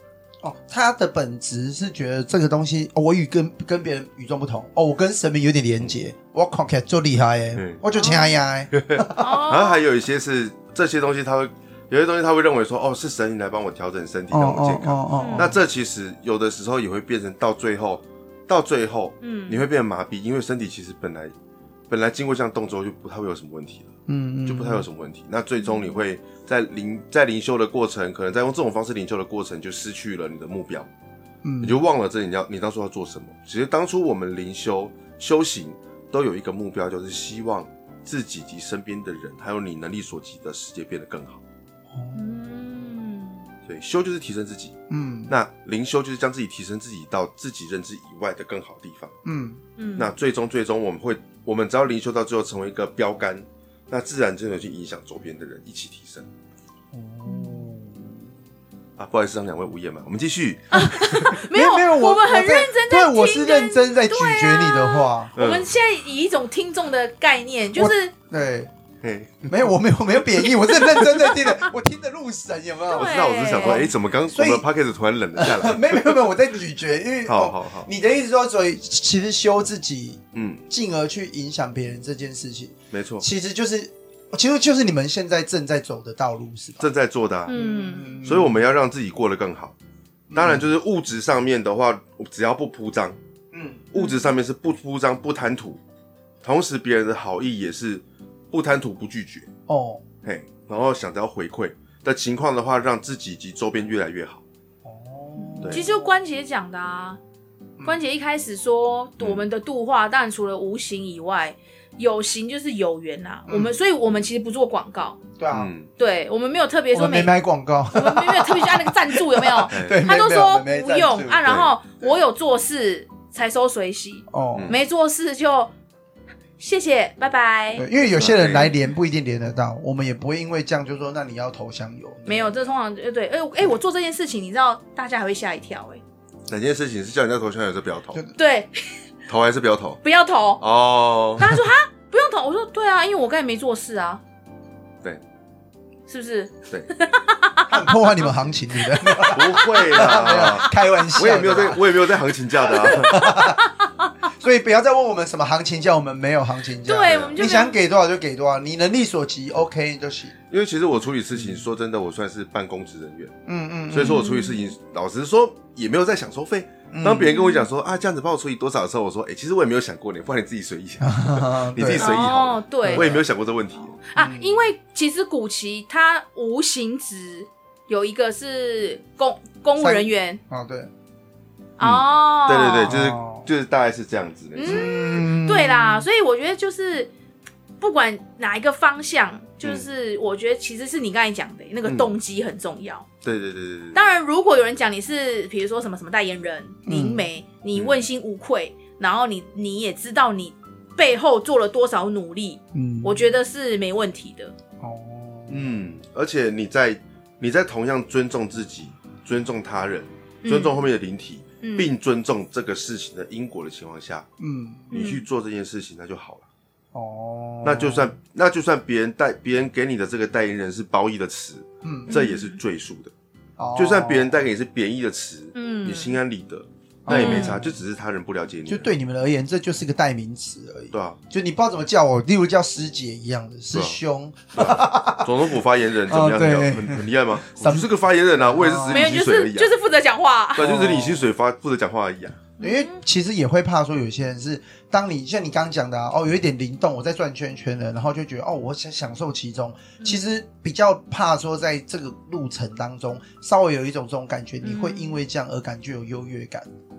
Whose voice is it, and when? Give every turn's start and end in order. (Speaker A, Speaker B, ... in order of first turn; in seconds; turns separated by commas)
Speaker A: 0.4-9.4, Speaker B: 7.5-7.8, Speaker C: 8.0-8.4, Speaker B: 8.7-21.3, Speaker C: 9.2-9.8, Speaker A: 14.3-15.6, Speaker C: 15.2-15.5, Speaker C: 19.2-19.6, Speaker B: 21.9-23.9, Speaker A: 24.1-24.9, Speaker B: 24.4-30.9, Speaker C: 25.6-26.0, Speaker A: 31.4-31.8, Speaker B: 31.6-41.4, Speaker A: 41.9-42.2, Speaker C: 42.1-43.5, Speaker B: 43.7-44.8, Speaker A: 44.9-45.3, Speaker B: 45.3-49.2, Speaker A: 49.2-49.6, Speaker C: 49.8-50.1, Speaker B: 50.0-56.3, Speaker A: 56.9-58.3, Speaker C: 57.2-57.6, Speaker B: 59.0-61.3, Speaker C: 60.7-68.1, Speaker A: 61.3-65.3, Speaker B: 65.4-65.7, Speaker A: 67.8-68.7, Speaker B: 69.0-69.5, Speaker A: 69.5-74.6, Speaker B: 70.7-71.3, Speaker B: 72.9-76.2, Speaker C: 73.0-73.8, Speaker A: 75.3-86.9, Speaker B: 77.2-77.9, Speaker B: 80.3-80.6, Speaker B: 82.9-83.3, Speaker B: 86.8-87.5, Speaker C: 87.5-88.2, Speaker A: 87.5-88.7, Speaker B: 88.2-89.7, Speaker A: 90.3-90.7, Speaker B: 90.3-93.2, Speaker A: 93.5-93.8, Speaker B: 93.9-95.8, Speaker C: 94.0-94.3, Speaker B: 96.4-99.5, Speaker A: 99.7-100.0, Speaker B: 100.2-104.4, Speaker A: 104.8-106.1, Speaker C: 105.3-107.2, Speaker C: 107.8-115.2, Speaker B: 109.2-109.5, Speaker A: 113.5-113.8, Speaker A: 115.4-115.7, Speaker B: 115.5-115.9, Speaker C: 116.0-117.3, Speaker A: 116.9-121.6, Speaker C: 117.9-125.7, Speaker B: 119.7-120.0, Speaker B: 121.4-121.7, Speaker A: 124.3-124.8, Speaker C: 126.6-127.9, Speaker A: 127.7-132.6, Speaker B: 128.2-128.8, Speaker C: 132.2-136.0, Speaker B: 136.5-138.2, Speaker C: 138.3-139.0, Speaker B: 139.3-140.0, Speaker C: 140.0-140.6, Speaker B: 140.6-141.4, Speaker C: 141.4-144.2, Speaker C: 146.1-148.2, Speaker A: 147.7-153.6, Speaker C: 148.9-150.1, Speaker B: 149.3-153.3, Speaker C: 153.2-154.1, Speaker A: 154.3-160.3, Speaker C: 156.8-157.8, Speaker B: 157.1-157.3, Speaker B: 160.5-163.3, Speaker A: 161.3-161.7, Speaker A: 163.4-164.3, Speaker B: 163.9-174.0, Speaker C: 164.0-164.7, Speaker A: 166.9-167.3, Speaker C: 167.2-167.7, Speaker A: 171.0-172.3, Speaker C: 172.0-173.2, Speaker A: 172.8-173.2, Speaker C: 173.8-180.4, Speaker A: 174.2-174.7, Speaker A: 179.8-180.9, Speaker C: 181.8-182.9, Speaker B: 181.8-184.9, Speaker A: 182.9-183.5, Speaker C: 184.5-187.1, Speaker A: 184.6-186.1, Speaker C: 187.8-193.1, Speaker B: 191.8-192.1, Speaker B: 193.2-194.0, Speaker C: 193.9-204.5, Speaker A: 196.9-197.3, Speaker B: 197.7-198.1, Speaker A: 202.7-203.2, Speaker A: 204.8-205.7, Speaker B: 205.5-214.3, Speaker C: 210.4-210.8, Speaker C: 211.6-211.9, Speaker A: 214.4-214.9, Speaker B: 214.9-216.4, Speaker C: 214.9-215.2, Speaker A: 216.9-218.1, Speaker B: 217.6-223.1, Speaker A: 221.8-222.1, Speaker C: 222.1-222.6, Speaker A: 223.6-224.4, Speaker B: 223.7-228.9, Speaker C: 225.5-226.2, Speaker A: 227.1-227.7, Speaker C: 227.1-227.6, Speaker A: 228.7-235.4, Speaker B: 230.9-231.2, Speaker B: 233.7-234.0, Speaker B: 234.5-239.7, Speaker A: 236.1-239.2, Speaker C: 238.9-240.6, Speaker B: 240.5-242.4, Speaker A: 240.6-241.3, Speaker C: 242.6-243.0, Speaker A: 242.6-256.7, Speaker C: 250.0-250.2, Speaker C: 254.6-255.2